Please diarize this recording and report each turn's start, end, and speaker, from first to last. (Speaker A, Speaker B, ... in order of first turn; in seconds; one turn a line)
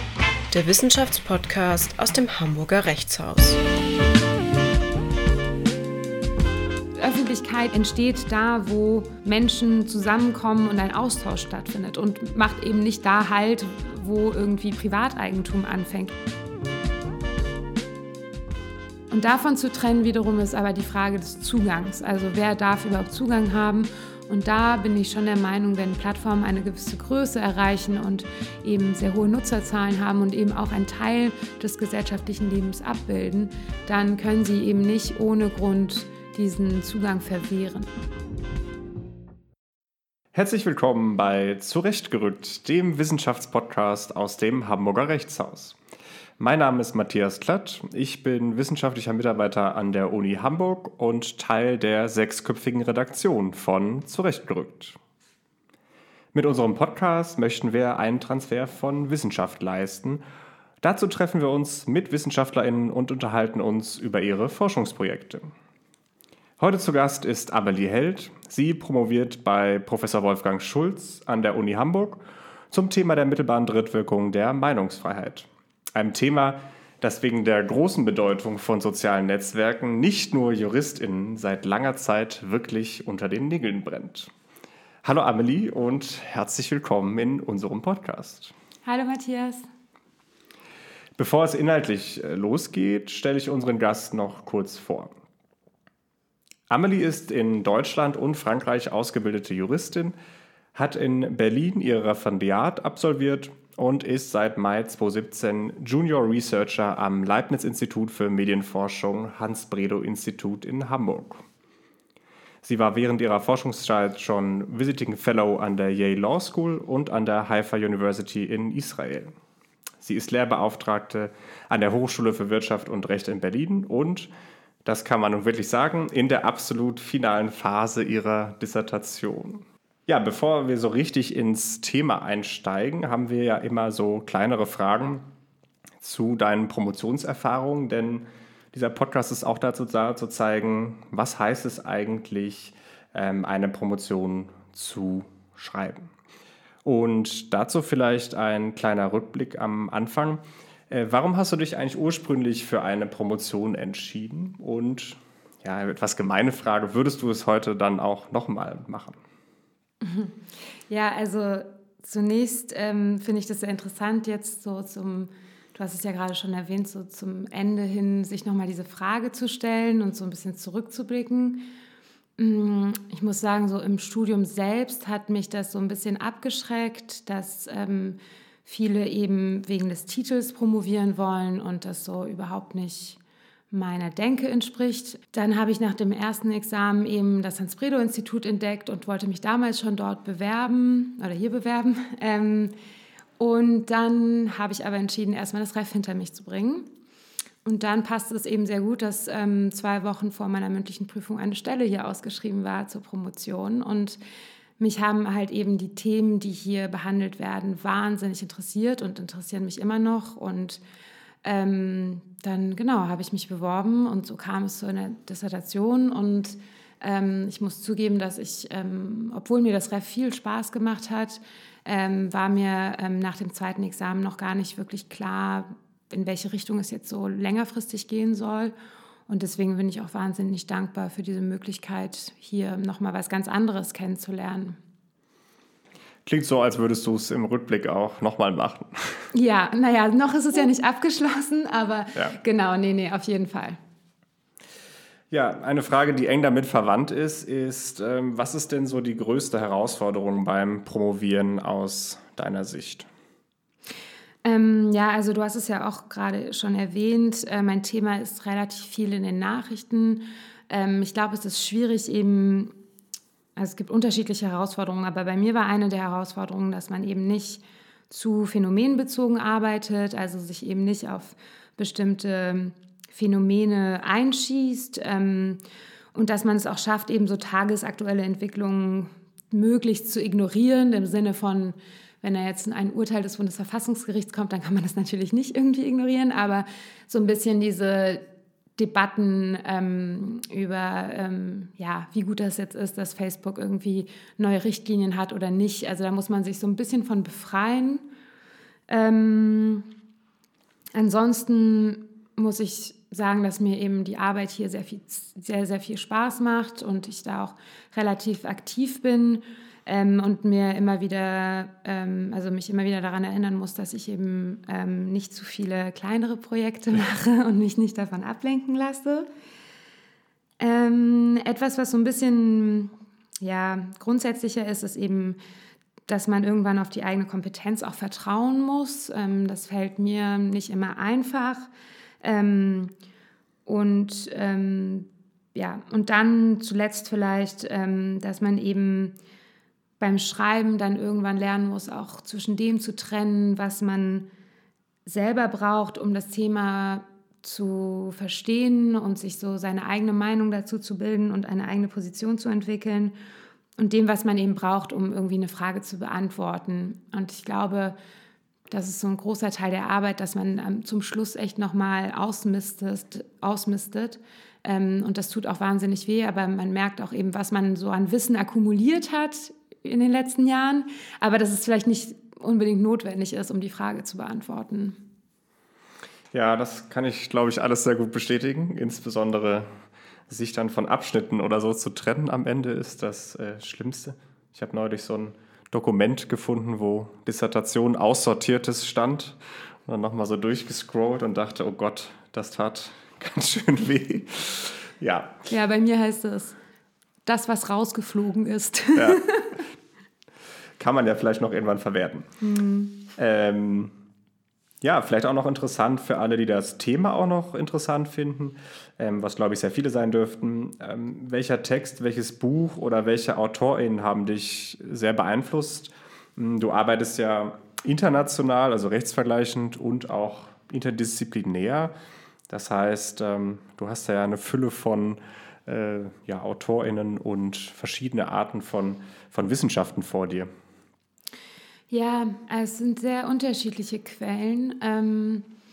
Speaker A: 0.5-3.6
Speaker B: 7.0-16.1
Speaker B: 19.1-37.9
Speaker C: 40.3-45.8
Speaker C: 46.4-55.0
Speaker C: 56.3-60.2
Speaker C: 60.8-65.5
Speaker C: 66.6-72.2
Speaker C: 72.7-84.3
Speaker C: 85.0-88.5
Speaker B: 88.8-89.7
Speaker C: 91.2-95.1
Speaker C: 96.7-100.1
Speaker C: 100.7-111.4
Speaker C: 112.6-119.3
Speaker C: 120.0-124.3
Speaker C: 124.8-135.3
Speaker C: 136.0-146.1
Speaker C: 146.8-159.2
Speaker B: 160.0-160.3
Speaker B: 160.9-171.7
Speaker B: 172.4-183.2
Speaker B: 183.7-192.7
Speaker B: 193.4-196.9
Speaker B: 197.6-204.2
Speaker B: 204.8-210.8
Speaker B: 211.4-228.7
Speaker B: 229.3-234.8
Speaker C: 236.2-239.3
Speaker B: 239.3-243.8
Speaker C: 245.3-253.1
Speaker B: 254.4-262.7
Speaker B: 263.6-275.6
Speaker B: 276.1-288.2
Speaker B: 288.8-298.0
Speaker B: 298.9-299.9
Speaker B: 300.9-319.3
Speaker B: 320.6-325.4
Speaker B: 326.1-331.7
Speaker B: 332.2-332.9
Speaker B: 333.6-339.1
Speaker B: 340.0-344.3
Speaker B: 345.1-353.1
Speaker B: 353.8-357.9
Speaker B: 358.7-375.0
Speaker C: 376.3-379.7
Speaker C: 380.3-395.4
Speaker B: 395.5-396.6
Speaker B: 397.2-399.6
Speaker C: 398.9-399.2
Speaker C: 400.8-402.3
Speaker B: 402.4-402.9
Speaker C: 403.1-403.9
Speaker C: 404.8-421.9
Speaker C: 422.5-430.5
Speaker B: 431.9-435.5